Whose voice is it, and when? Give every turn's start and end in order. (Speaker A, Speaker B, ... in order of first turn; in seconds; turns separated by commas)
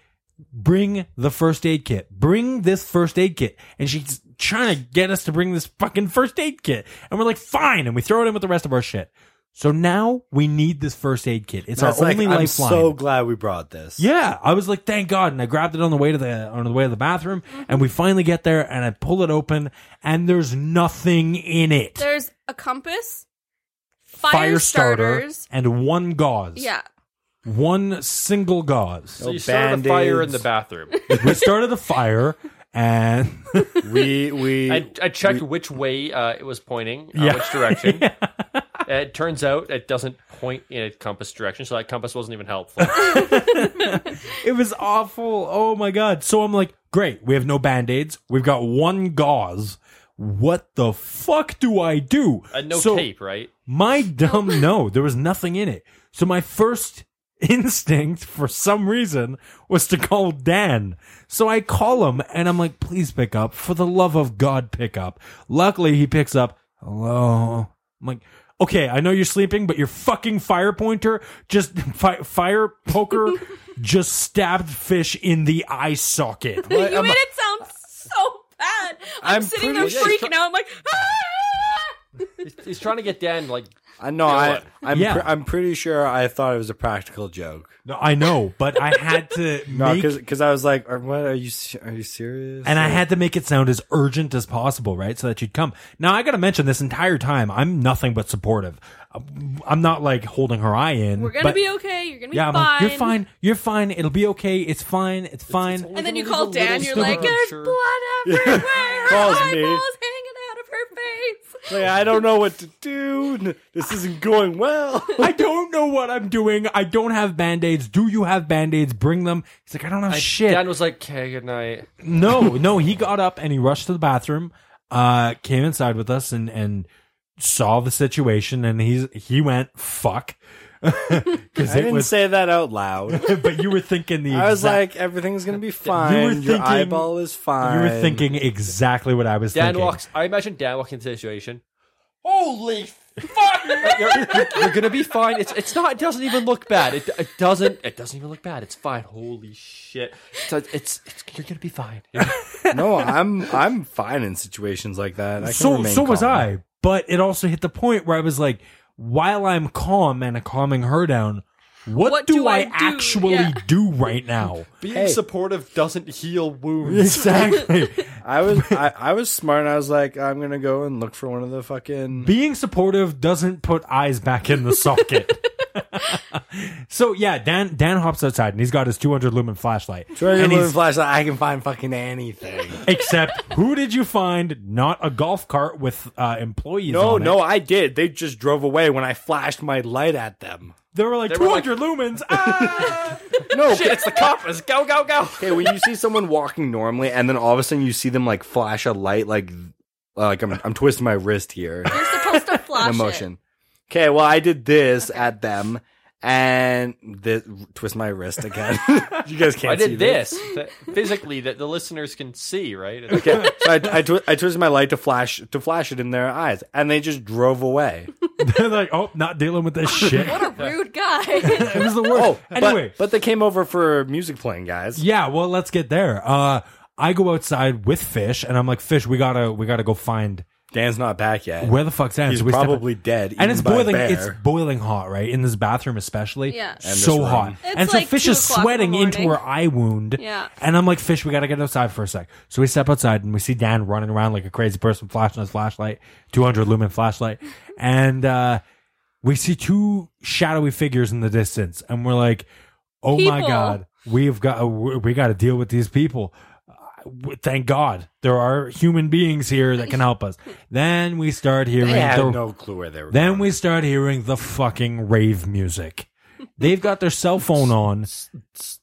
Speaker A: 0.5-13.0, Speaker B: 11.7-14.1, Speaker A: 14.0-22.1, Speaker C: 17.5-17.8, Speaker C: 22.0-23.2, Speaker C: 24.1-25.4, Speaker A: 24.2-26.7, Speaker C: 26.5-26.8, Speaker A: 27.4-29.2, Speaker B: 29.2-30.5, Speaker D: 29.2-31.1, Speaker A: 31.1-33.8, Speaker B: 33.8-35.4, Speaker D: 34.7-38.1, Speaker A: 37.1-38.6, Speaker D: 38.9-43.1, Speaker A: 42.8-53.1, Speaker C: 43.2-44.0, Speaker D: 52.5-53.5, Speaker A: 53.7-76.7, Speaker C: 54.2-54.6, Speaker B: 76.7-77.2, Speaker C: 76.7-81.9, Speaker B: 79.2-80.2, Speaker D: 79.7-80.3, Speaker D: 82.4-83.7, Speaker B: 84.0-87.8, Speaker D: 84.2-84.7, Speaker A: 84.9-85.3, Speaker A: 87.8-90.2, Speaker B: 89.7-93.0, Speaker A: 92.6-101.7, Speaker C: 101.2-103.2, Speaker A: 102.3-105.9, Speaker D: 105.5-107.8, Speaker C: 105.9-112.0, Speaker A: 106.9-107.3, Speaker B: 108.2-109.8, Speaker B: 111.7-115.3, Speaker A: 115.2-120.7, Speaker D: 120.1-121.9, Speaker A: 122.0-132.1, Speaker B: 131.6-133.3, Speaker A: 133.1-134.8, Speaker B: 134.3-138.3, Speaker A: 135.9-140.0, Speaker D: 139.5-141.6, Speaker D: 142.2-152.4, Speaker A: 143.8-144.3, Speaker A: 152.2-152.8, Speaker B: 152.7-156.5, Speaker A: 155.4-164.7, Speaker C: 162.0-163.6, Speaker D: 164.8-167.4, Speaker B: 164.8-165.2, Speaker A: 166.8-168.8, Speaker B: 168.2-172.3, Speaker A: 172.2-180.8, Speaker B: 180.1-182.8, Speaker A: 182.8-187.4, Speaker B: 186.8-190.7, Speaker A: 190.9-193.2, Speaker D: 191.3-191.7, Speaker B: 192.3-192.9, Speaker B: 193.5-194.2, Speaker D: 193.5-195.8, Speaker B: 195.4-201.9, Speaker C: 201.9-203.2, Speaker E: 202.0-203.2, Speaker B: 202.7-210.4, Speaker D: 209.6-213.6, Speaker B: 213.1-218.1, Speaker A: 218.4-220.5, Speaker E: 220.1-221.9, Speaker A: 221.4-223.0, Speaker B: 222.1-225.0, Speaker A: 224.9-230.5, Speaker B: 230.7-234.4, Speaker A: 231.6-248.6, Speaker C: 236.5-236.8, Speaker B: 236.8-237.6, Speaker C: 237.6-239.4, Speaker C: 240.2-240.5, Speaker A: 249.2-252.5, Speaker A: 253.0-262.4, Speaker C: 253.1-253.8, Speaker B: 261.8-263.5, Speaker A: 263.1-268.1